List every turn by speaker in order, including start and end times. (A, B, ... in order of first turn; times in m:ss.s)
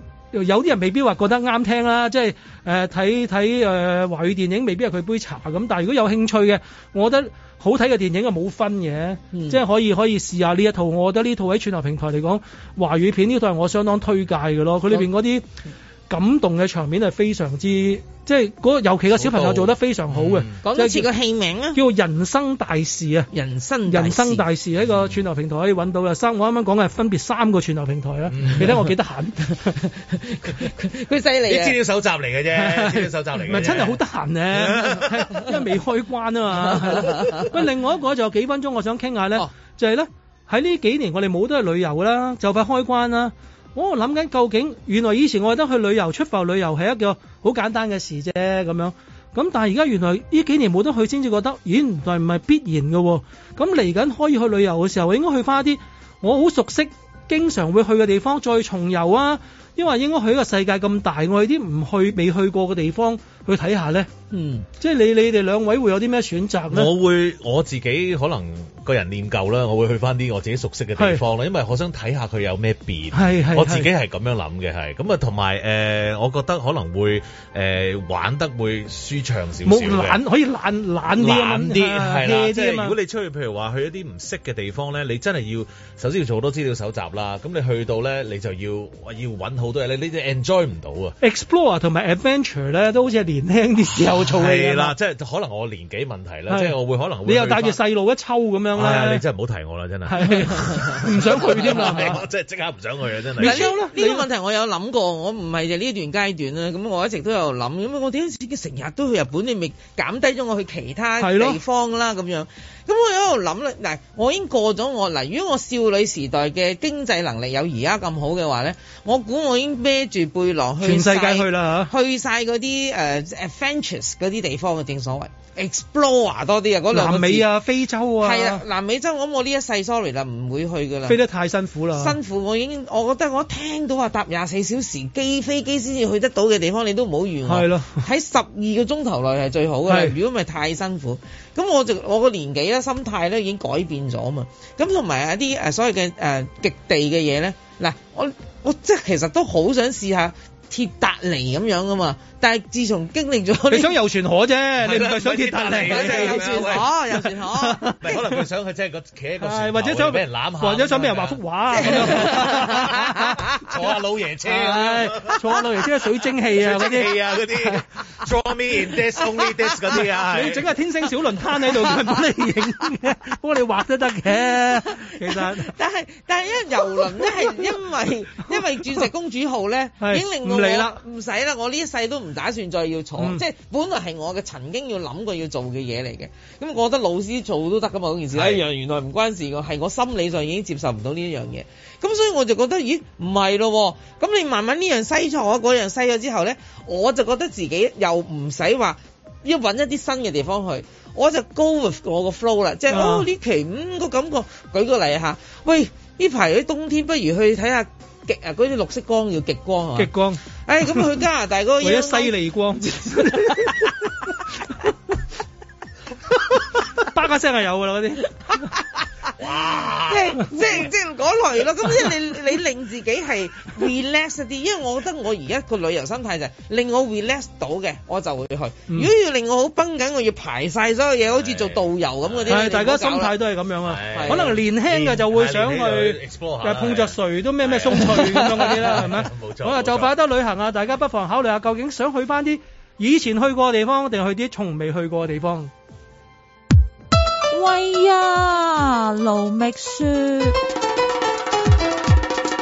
0:00.3-0:15.4 A
0:09.3-0:09.6 B
0:16.1-0:21.1 A
0:19.1-0:20.6 C
0:20.6-0:21.8 B
0:21.7-0:23.3 A
0:23.3-0:24.4 B
0:23.9-0:29.7 A
0:24.8-0:25.2 C
0:28.3-0:28.7 C
0:29.5-0:31.8 B
0:31.5-0:34.0 C
0:32.5-1:04.1 A
0:34.5-0:35.2 C
0:36.6-0:37.4 B
1:04.3-1:04.7 B
1:04.8-1:06.9 A
1:06.7-1:20.2 C
1:11.0-1:11.2 A
1:13.1-1:13.9 A
1:19.6-1:23.0 A
1:21.2-1:31.2 C
1:31.2-1:35.0 A
1:34.2-1:37.8 C
1:36.5-1:39.2 A
1:38.8-1:43.7 C
1:40.1-1:42.2 A
1:41.6-1:42.1 B
1:43.4-1:44.3 A
1:43.4-2:07.5 B
1:51.2-1:51.6 A
2:00.8-2:01.9 A
2:06.9-2:08.6 A
2:08.2-2:11.2 B
2:11.1-2:12.2 A
2:12.0-2:34.0 B
2:17.5-2:18.0 A
2:19.9-2:20.2 A
2:33.7-2:38.4 A
2:34.8-2:36.9 C
2:35.9-2:38.0 B
2:38.0-2:42.9 C
2:39.4-2:43.6 A
2:41.8-2:43.2 B
2:43.6-2:45.4 C
2:44.4-2:47.8 A
2:46.5-2:50.7 C
2:50.1-2:55.7 A
2:54.6-3:30.1 B
2:57.0-2:57.8 A
2:58.5-2:59.1 A
3:00.0-3:01.0 A
3:03.2-3:03.4 A
3:08.3-3:08.6 C
3:22.9-3:23.3 A
3:30.0-3:31.2 A
3:30.7-3:32.3 B
3:31.8-3:33.9 A
3:33.1-3:33.7 B
3:37.0-3:38.6 A
3:39.4-3:40.5 C
3:40.1-3:53.3 B
3:51.3-3:52.6 C
3:52.5-4:05.7 A
3:53.9-4:00.1 C
3:54.1-3:54.5 B
4:07.5-4:10.6 D